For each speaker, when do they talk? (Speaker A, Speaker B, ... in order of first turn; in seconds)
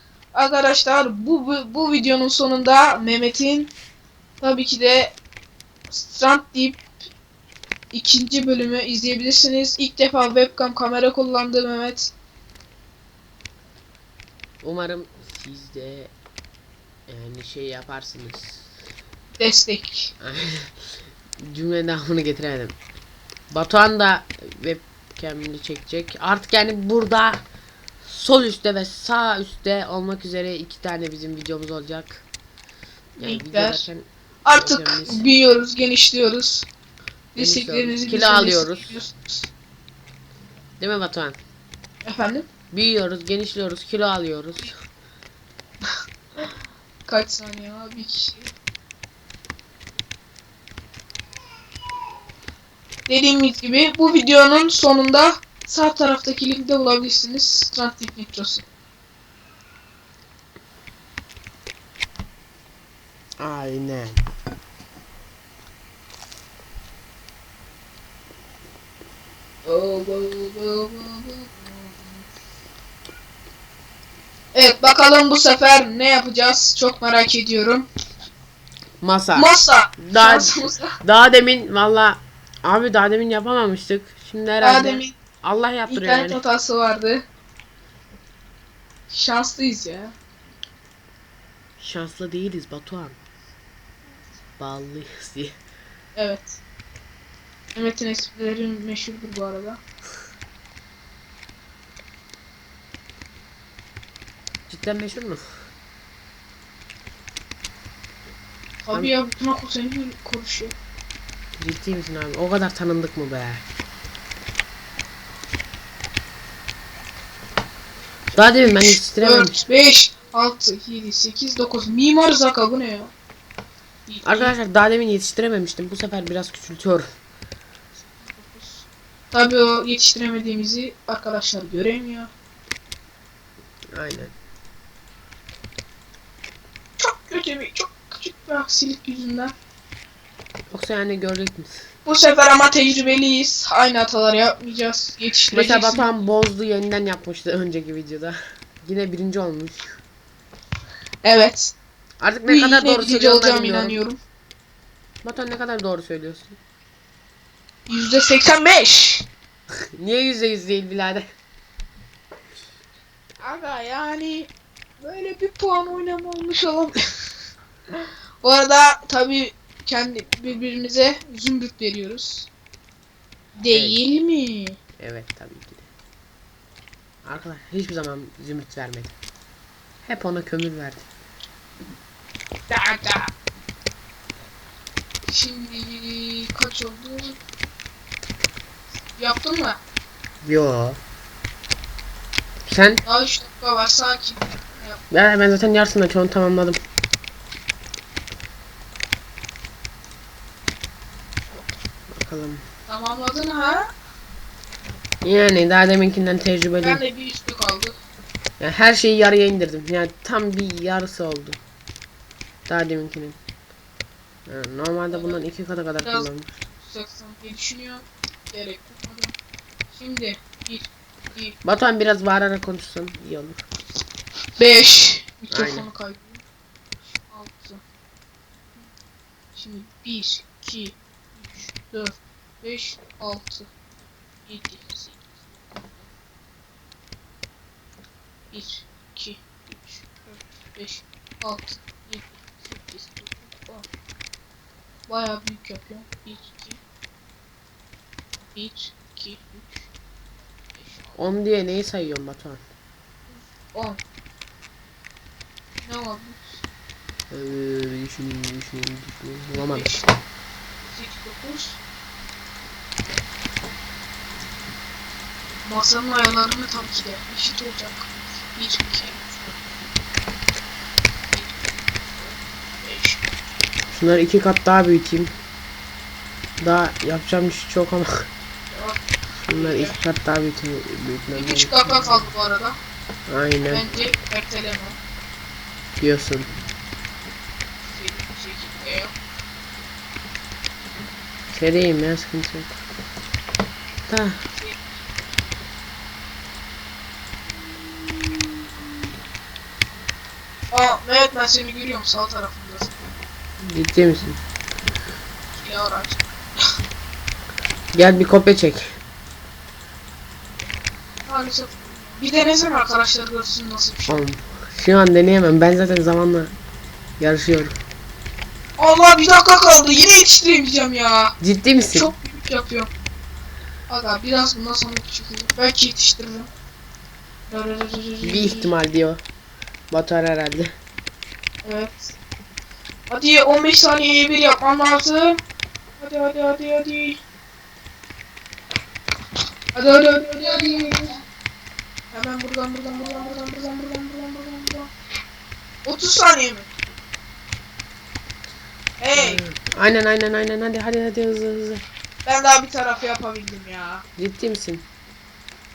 Speaker A: 0.3-3.7, 4.4-5.2, 5.9-6.8, 7.9-12.1, 19.4-20.1, 33.2-33.9, 34.4-36.7, 37.4-39.5, 42.0-42.5, 47.1-48.5, 53.1-58.6, 69.6-72.2, 74.5-77.8, 79.3-80.9, 84.6-85.1, 85.9-87.2, 89.1-90.1, 96.2-96.6, 97.7-99.8, 108.8-110.7, 118.6-123.1, 124.1-124.5, 128.2-132.3, 137.0-139.5, 142.1-146.1, 151.2-151.7, 152.5-154.2, 157.9-159.2, 163.4-167.0, 168.4-172.5, 173.6-174.8, 182.7-183.3, 185.3-187.4, 189.2-189.8, 193.0-195.0, 202.9-203.9, 206.8-207.9, 215.1-215.4, 216.8-219.3, 219.9-221.5, 224.6-226.4, 227.1-227.8, 229.5-233.7, 234.5-235.2, 238.5-243.9, 245.1-246.8, 248.5-249.9, 250.7-251.1, 253.7-254.0, 255.8-256.6, 259.5-260.1, 260.9-261.8, 265.6-269.5, 271.3-273.2, 278.7-280.0, 281.3-282.8, 283.7-285.0, 287.8-289.1, 294.6-294.8, 300.7-303.1, 305.5-306.3, 311.2-314.2, 318.8-321.3, 321.9-322.9, 323.9-326.5, 327.5-328.7, 331.6-332.1, 333.1-335.4, 336.0-337.2, 339.7-341.2, 342.1-344.9, 345.8-346.7, 349.0-349.4, 352.2-354.0
Speaker B: 14.6-16.1, 17.1-18.7, 20.2-20.7, 21.4-22.8, 23.5-27.4, 28.0-32.2, 33.2-35.2, 37.4-39.0, 40.8-41.4, 42.7-44.7, 63.4-64.2, 79.0-86.4, 91.8-93.2, 94.6-95.6, 104.7-105.4, 111.6-113.7, 118.3-119.6, 124.2-127.0, 133.9-134.3, 140.7-141.7, 145.5-150.0, 152.2-154.0, 155.2-156.6, 160.0-161.3, 173.7-174.0, 175.0-175.9, 177.2-179.1, 180.0-181.0, 190.4-191.0, 192.7-193.0, 195.1-196.8, 202.1-202.6, 205.2-207.0, 208.6-211.6, 212.7-213.4, 214.5-216.5, 221.6-223.6, 225.5-225.9, 251.2-252.6, 257.3-259.9, 273.9-275.3, 276.6-278.3, 279.4-282.2, 283.3-283.9, 286.0-286.5, 291.5-292.7, 294.1-294.4, 303.6-304.4, 307.9-308.8, 314.1-316.5, 317.2-317.8, 321.4-322.1, 328.2-329.2, 329.9-330.7, 349.1-351.8, 354.2-354.9